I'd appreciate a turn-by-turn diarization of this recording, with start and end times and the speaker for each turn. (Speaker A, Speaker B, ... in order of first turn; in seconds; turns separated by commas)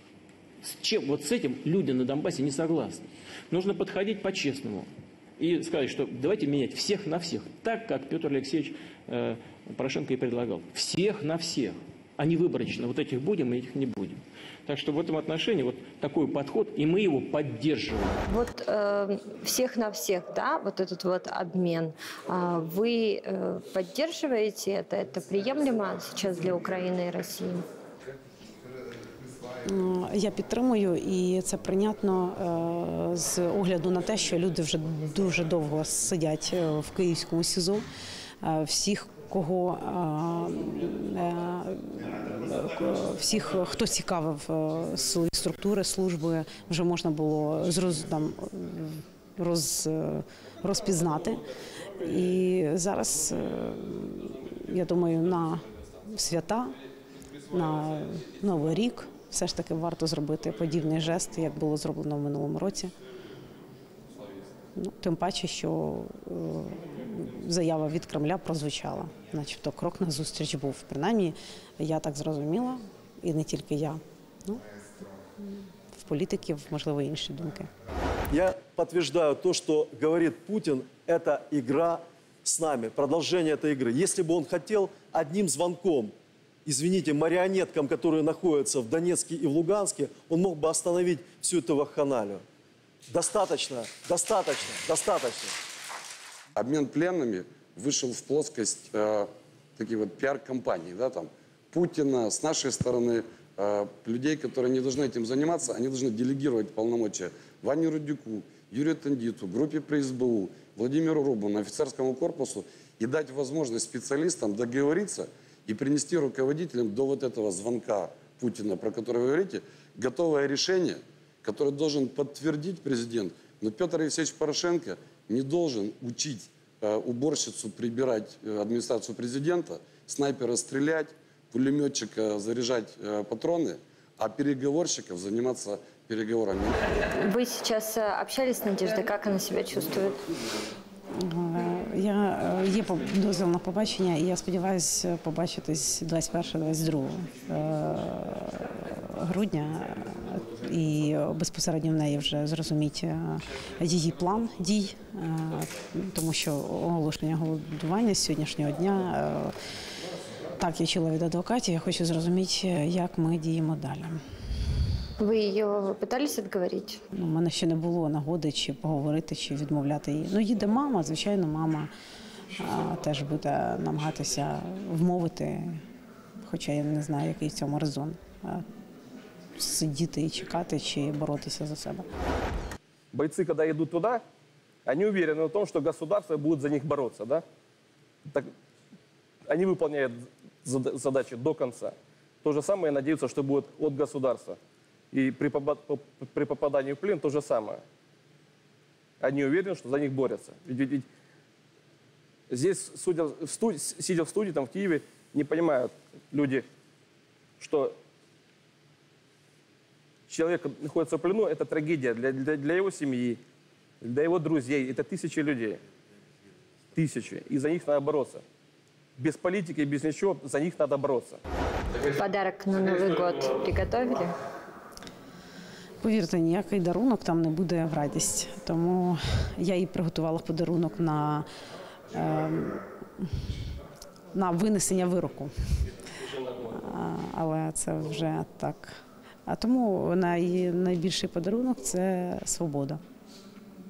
Speaker A: 0.6-18.2, Speaker B: 18.3-27.6, Speaker C: 29.7-37.8, Speaker C: 38.4-51.4, Speaker C: 52.0-56.7, Speaker C: 57.5-62.9, Speaker C: 64.8-74.6, Speaker C: 75.9-77.7, Speaker D: 78.3-86.1, Speaker D: 86.7-92.4, Speaker D: 93.1-95.5, Speaker E: 96.5-136.8, Speaker B: 137.1-140.2, Speaker C: 141.2-159.5, Speaker C: 160.6-164.2, Speaker B: 165.2-167.0, Speaker C: 167.1-171.9, Speaker C: 172.6-175.8, Speaker C: 176.4-178.6, Speaker C: 179.6-182.0, Speaker F: 183.1-184.2, Speaker F: 184.8-187.4, Speaker F: 189.5-194.6, Speaker F: 195.1-197.8, Speaker F: 199.2-201.1, Speaker F: 202.5-206.7, Speaker F: 207.6-208.0, Speaker F: 210.3-213.4, Speaker F: 214.0-215.8, Speaker F: 216.9-218.4, Speaker F: 219.2-221.4, Speaker B: 222.2-224.3, Speaker C: 226.0-231.4, Speaker C: 232.1-233.2, Speaker C: 234.3-235.5, Speaker C: 236.7-243.0